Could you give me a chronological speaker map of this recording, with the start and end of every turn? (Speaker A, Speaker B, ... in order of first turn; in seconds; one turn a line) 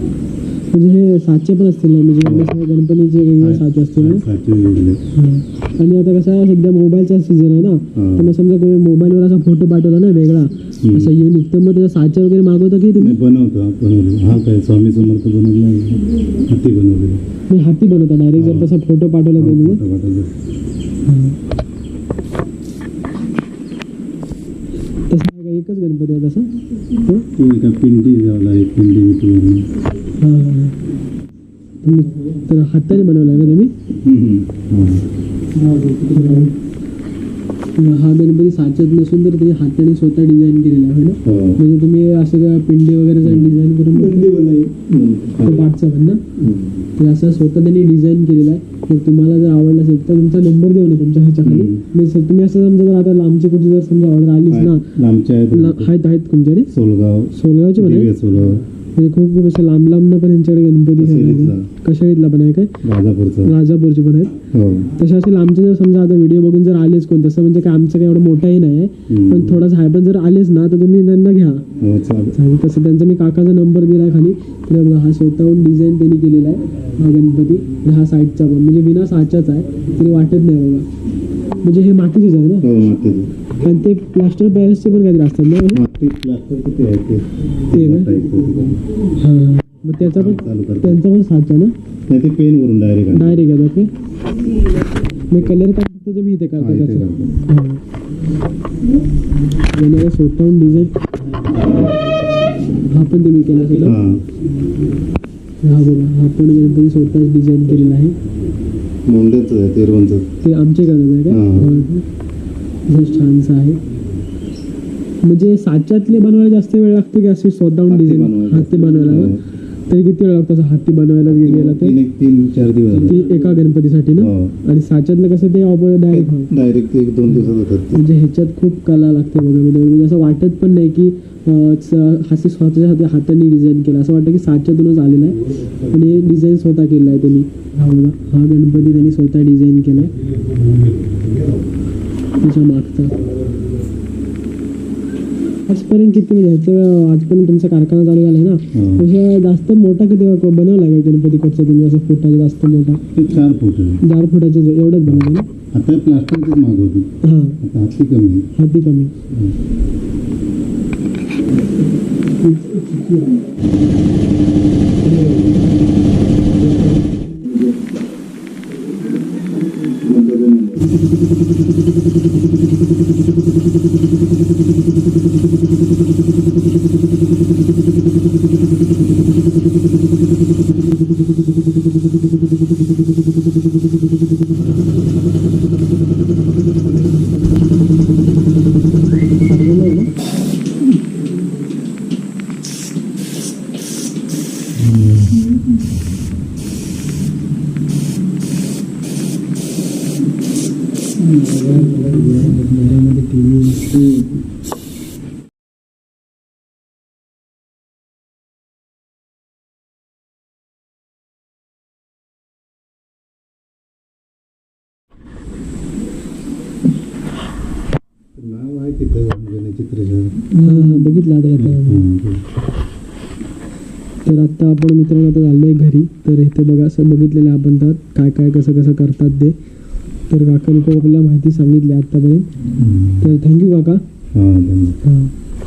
Speaker A: 0.7-4.2
Speaker B: 2.2-2.6
Speaker B: 3.4-5.0
Speaker A: 5.2-13.2
Speaker B: 8.0-8.3
Speaker B: 10.8-11.1
Speaker B: 13.0-17.2
Speaker A: 17.5-19.8
Speaker B: 18.4-18.8
Speaker B: 19.4-20.3
Speaker A: 21.1-21.4
Speaker A: 25.1-27.3
Speaker B: 27.3-29.7
Speaker A: 30.2-30.8
Speaker A: 31.8-33.7
Speaker B: 34.0-35.1
Speaker B: 35.7-36.4
Speaker A: 36.0-36.5
Speaker A: 37.8-44.3
Speaker B: 41.2-41.6
Speaker B: 43.2-45.7
Speaker A: 45.4-46.3
Speaker B: 46.4-46.9
Speaker A: 47.0-54.9
Speaker B: 51.4-51.9
Speaker B: 54.5-55.9
Speaker A: 55.5-56.7
Speaker B: 56.7-58.6
Speaker A: 57.3-58.1
Speaker A: 59.0-62.8
Speaker B: 61.0-61.7
Speaker B: 62.8-63.5
Speaker A: 63.4-64.4
Speaker B: 64.5-64.9
Speaker A: 64.9-71.7
Speaker B: 69.1-69.7
Speaker B: 71.8-72.4
Speaker A: 72.3-80.9
Speaker A: 81.6-82.7
Speaker B: 82.6-83.3
Speaker A: 83.6-85.8
Speaker B: 85.7-88.8
Speaker A: 87.7-88.1
Speaker A: 89.2-91.7
Speaker B: 90.0-91.0
Speaker B: 92.1-93.5
Speaker A: 93.1-93.9
Speaker A: 95.3-97.8
Speaker B: 96.6-97.3
Speaker A: 99.7-101.0
Speaker A: 102.8-104.0
Speaker B: 103.8-104.2
Speaker A: 105.6-108.2
Speaker B: 109.0-110.3
Speaker A: 110.4-112.1
Speaker B: 111.3-111.8
Speaker A: 112.9-113.8
Speaker A: 115.2-122.0
Speaker B: 117.9-119.4
Speaker B: 121.2-123.2
Speaker A: 122.9-126.5
Speaker B: 124.2-124.5
Speaker B: 126.1-128.0
Speaker A: 127.3-140.1
Speaker B: 135.5-136.2
Speaker B: 140.1-141.7
Speaker A: 142.4-143.2
Speaker B: 143.1-143.8
Speaker A: 145.7-153.0
Speaker B: 148.7-149.1
Speaker B: 153.2-154.0
Speaker A: 154.0-155.5
Speaker B: 155.1-157.1
Speaker A: 157.2-157.6
Speaker B: 157.6-158.5
Speaker A: 158.6-159.1
Speaker B: 159.3-159.6
Speaker B: 169.8-171.0
Speaker A: 189.5-190.1
Speaker B: 194.8-195.6
Speaker B: 201.2-202.6
Speaker A: 201.6-203.9
Speaker B: 203.9-204.3
Speaker B: 218.4-221.0
Speaker A: 220.5-222.0
Speaker B: 221.6-222.4
Speaker A: 224.2-229.6
Speaker A: 230.3-232.5
Speaker B: 232.7-233.3
Speaker A: 233.2-234.0
Speaker B: 234.3-235.0
Speaker A: 235.0-235.3